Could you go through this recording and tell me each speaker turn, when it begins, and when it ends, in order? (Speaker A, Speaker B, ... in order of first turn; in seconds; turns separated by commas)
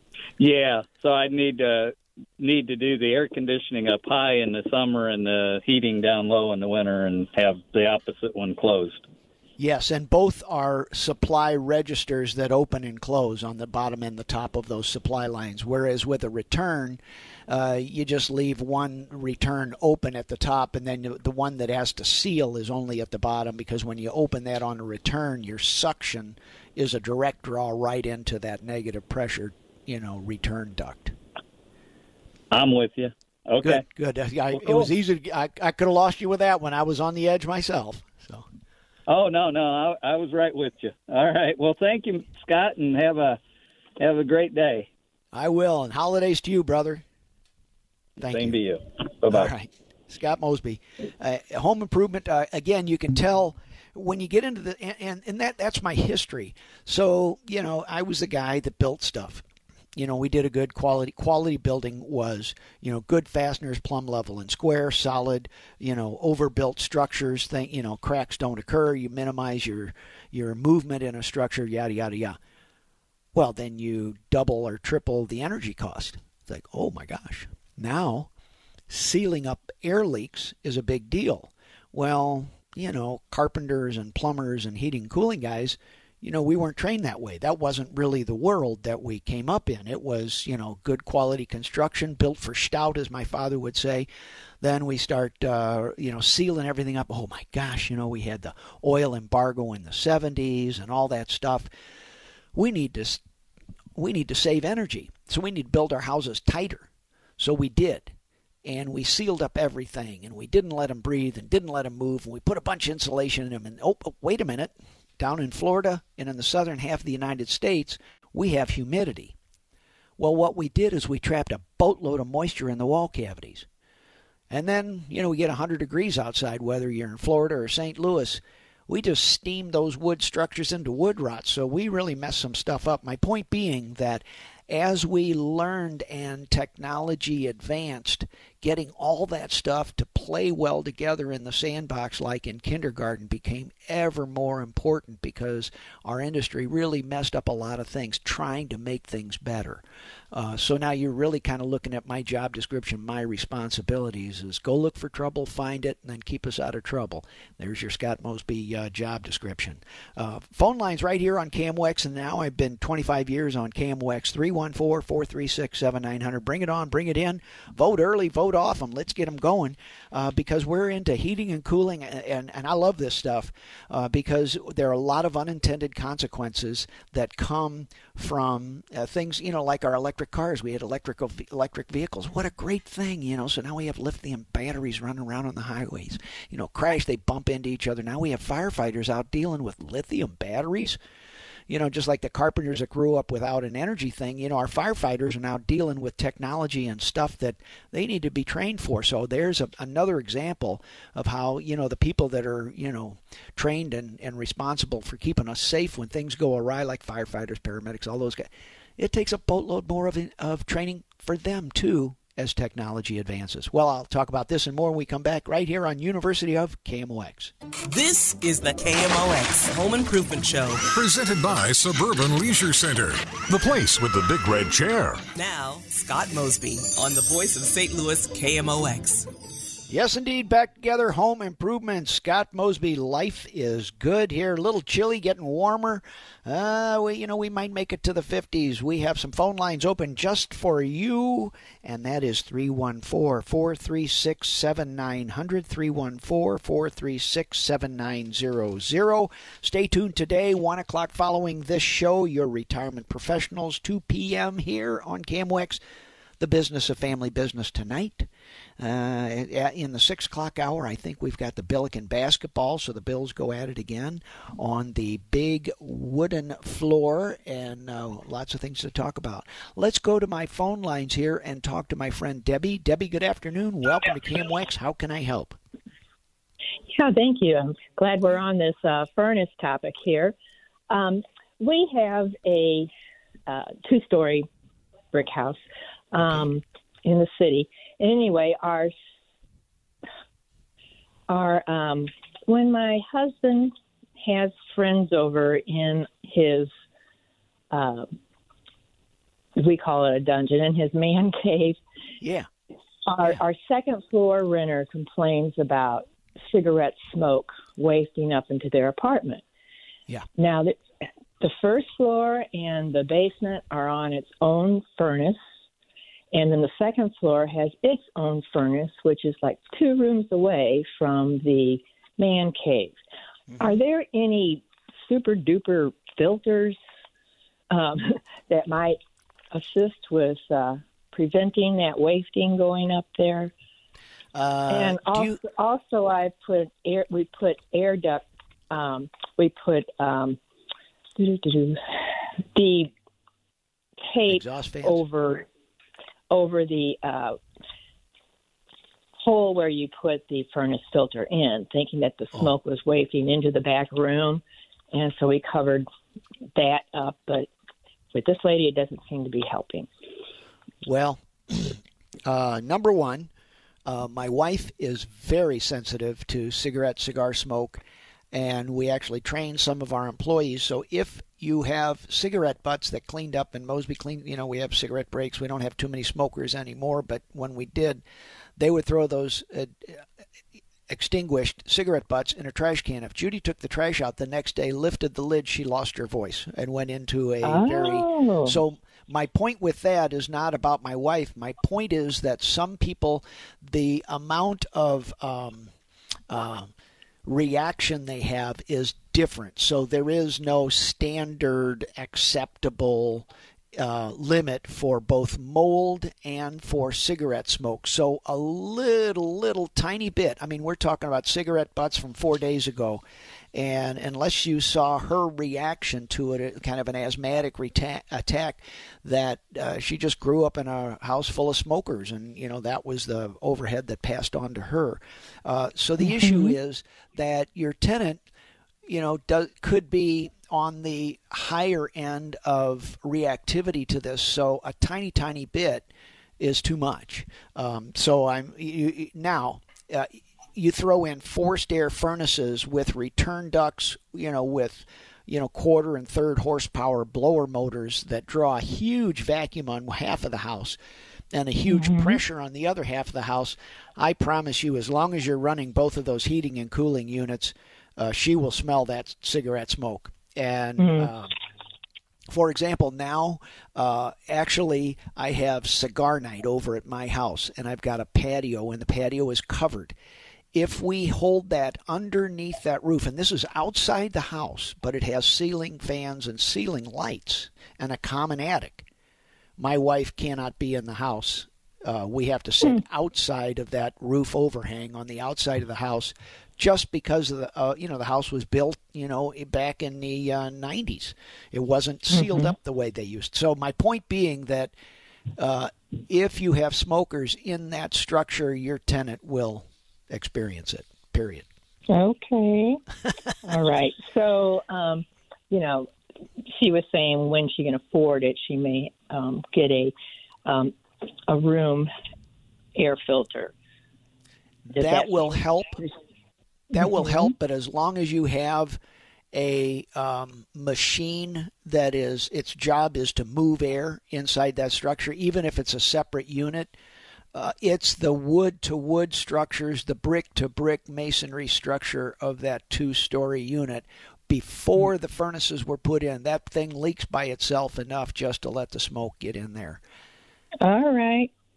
Speaker A: 0.4-9.0, Speaker B: 9.6-31.2, Speaker A: 32.5-33.8, Speaker B: 33.6-38.5, Speaker A: 34.5-34.9, Speaker A: 39.1-43.4, Speaker A: 44.0-44.9, Speaker B: 45.3-47.0, Speaker A: 48.2-49.5, Speaker B: 48.2-48.6, Speaker B: 49.3-59.4, Speaker B: 60.0-72.4, Speaker B: 73.3-78.3, Speaker B: 78.9-94.1, Speaker B: 94.6-101.7, Speaker B: 102.5-103.2, Speaker B: 104.0-108.1, Speaker B: 108.7-119.3, Speaker B: 120.2-123.7, Speaker B: 124.5-191.0, Speaker B: 191.7-217.5, Speaker C: 217.9-220.8, Speaker D: 220.9-225.3, Speaker C: 225.3-229.3, Speaker B: 229.9-255.8, Speaker B: 256.4-258.3, Speaker B: 258.8-275.6, Speaker E: 276.9-280.4, Speaker E: 280.9-282.9, Speaker E: 283.5-284.5, Speaker E: 285.1-285.6, Speaker E: 286.1-288.9, Speaker E: 291.3-296.7, Speaker E: 297.7-298.1, Speaker E: 299.6-301.8, Speaker B: 302.2-302.5, Speaker E: 303.1-309.4, Speaker E: 310.4-310.8, Speaker E: 311.4-315.4, Speaker E: 316.3-323.0, Speaker E: 323.6-326.8, Speaker E: 327.7-329.0, Speaker E: 329.5-333.5, Speaker B: 334.3-335.4, Speaker E: 334.7-340.4, Speaker E: 341.2-341.8, Speaker E: 342.5-342.9, Speaker E: 344.1-345.5, Speaker B: 344.3-345.0, Speaker E: 346.3-347.4, Speaker E: 349.2-354.4, Speaker E: 354.9-355.9, Speaker E: 356.6-357.5, Speaker E: 358.1-359.9, Speaker B: 360.8-363.3, Speaker B: 363.9-378.0, Speaker B: 378.6-380.0, Speaker B: 380.9-395.7, Speaker E: 387.4-388.6, Speaker B: 396.3-396.7, Speaker B: 397.2-413.0, Speaker B: 413.5-428.2, Speaker E: 426.1-426.5, Speaker B: 428.9-435.9, Speaker B: 436.4-450.8, Speaker B: 451.3-461.4, Speaker E: 451.7-452.2, Speaker E: 460.8-461.1, Speaker B: 462.3-469.9, Speaker B: 470.5-478.9, Speaker B: 479.6-494.7, Speaker E: 492.1-492.5, Speaker B: 495.4-501.5, Speaker E: 501.9-502.8, Speaker E: 503.4-505.9, Speaker E: 506.4-509.9, Speaker E: 510.5-510.8, Speaker E: 511.3-511.9, Speaker E: 512.8-513.5, Speaker B: 514.7-515.8, Speaker E: 514.8-515.4, Speaker B: 516.7-518.8, Speaker E: 516.8-517.3, Speaker B: 519.3-526.7, Speaker B: 527.3-539.8, Speaker E: 540.6-541.3